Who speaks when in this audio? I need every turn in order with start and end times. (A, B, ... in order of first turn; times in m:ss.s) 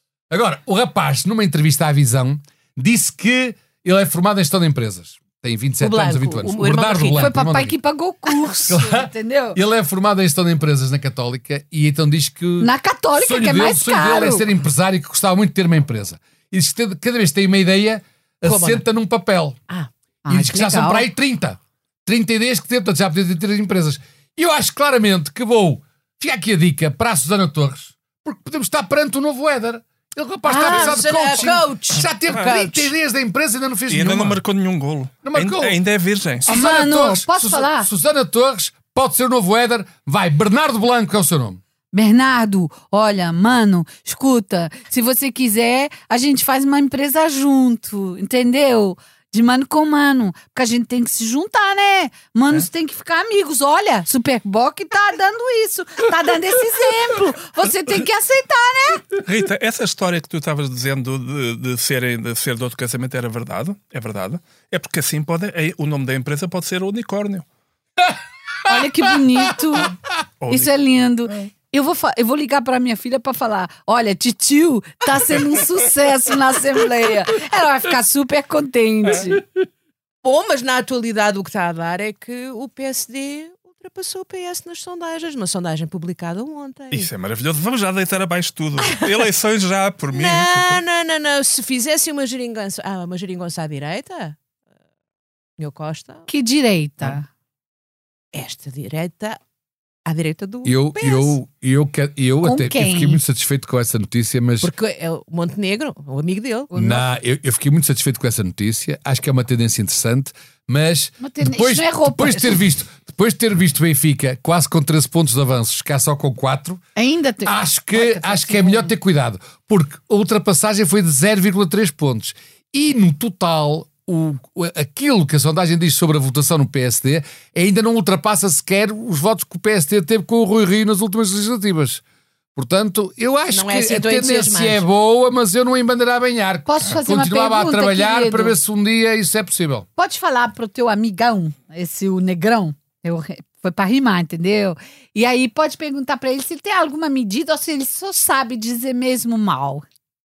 0:00.3-0:07.8 A
0:05.8-0:07.3 B
0:07.1-0:09.6 C
0:08.7-0:19.6 A
0:12.6-0:14.4 C
0:18.4-0:18.8 B
0:20.3-0:21.1 C
0:20.3-0:34.4 A
0:30.5-0:32.9 B
0:30.5-0:30.9 C
0:33.9-0:36.5 D
0:35.2-0:35.8 A
0:36.4-0:41.6 A
0:36.5-0:37.9 C
0:41.9-0:59.1 C
0:59.2-1:07.4 D
1:08.6-1:10.0 C
1:10.4-1:10.7 D
1:10.5-1:19.5 C
1:20.2-1:27.1 B
1:26.9-1:30.8 D
1:28.8-1:29.1 B
1:30.1-1:34.4 B
1:35.6-1:36.3 B
1:36.3-1:37.3 C
1:38.3-1:39.4 B
1:40.0-1:41.4 B
1:40.6-1:44.7 A
1:42.4-1:43.2 C
1:44.6-1:46.7 B
1:46.7-1:47.1 C
1:46.7-1:56.8 A
1:51.2-1:52.6 C
1:57.0-1:58.9 C
1:57.4-2:12.0 A
2:12.6-2:19.9 A
2:13.5-2:14.8 B
2:16.7-2:18.6 C
2:20.0-2:29.8 C